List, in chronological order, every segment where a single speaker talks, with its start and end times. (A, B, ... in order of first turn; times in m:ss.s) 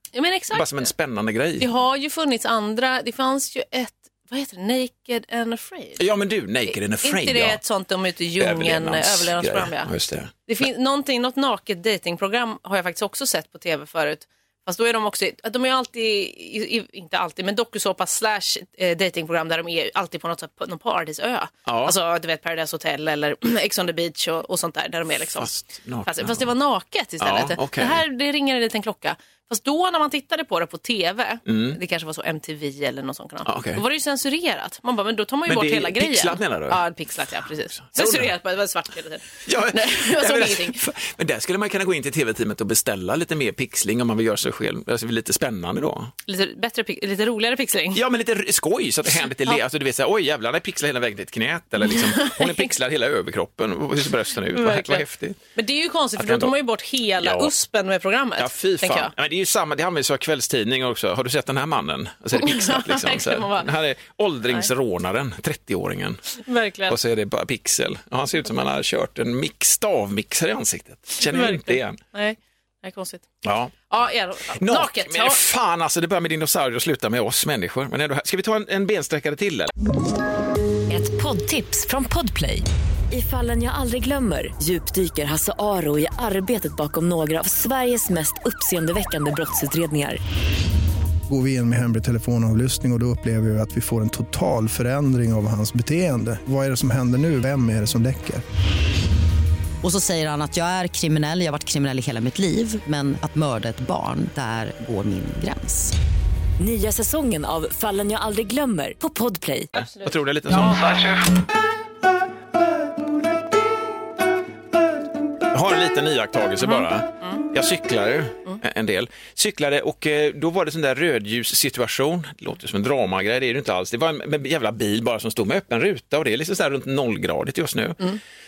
0:00.1-0:00.9 A
0:00.5-0:01.7 B
0:01.6-0:06.0 A
0:06.0-0:07.6 B
0:07.0-0:09.9 A
0:08.4-0:10.3 B
0:10.4-0:25.5 A
0:21.6-0:21.9 B
0:25.4-0:26.5 B
0:26.0-0:40.8 A
0:27.2-0:28.0 B
0:31.4-0:31.8 B
0:33.4-0:33.8 B
0:35.5-0:36.8 B
0:37.8-0:38.3 B
0:39.4-0:46.1 B
0:46.2-0:48.0 A
0:47.9-0:55.4 B
0:51.9-0:52.7 A
0:54.5-0:55.0 A
0:55.5-0:59.1 A
0:56.2-0:56.5 B
0:57.2-0:57.5 B
0:58.4-1:06.3 B
1:02.3-1:03.7 A
1:06.4-1:07.0 A
1:06.9-1:12.0 B
1:11.2-1:13.3 A
1:13.4-1:13.7 B
1:13.9-1:15.4 A
1:14.5-1:19.7 B
1:20.9-1:30.2 C
1:31.3-1:38.4 D
1:39.8-1:45.9 E
1:46.6-1:49.7 C
1:49.7-1:51.2 B
1:49.8-1:50.8 A
1:55.5-2:08.2 B
1:56.6-1:57.4 A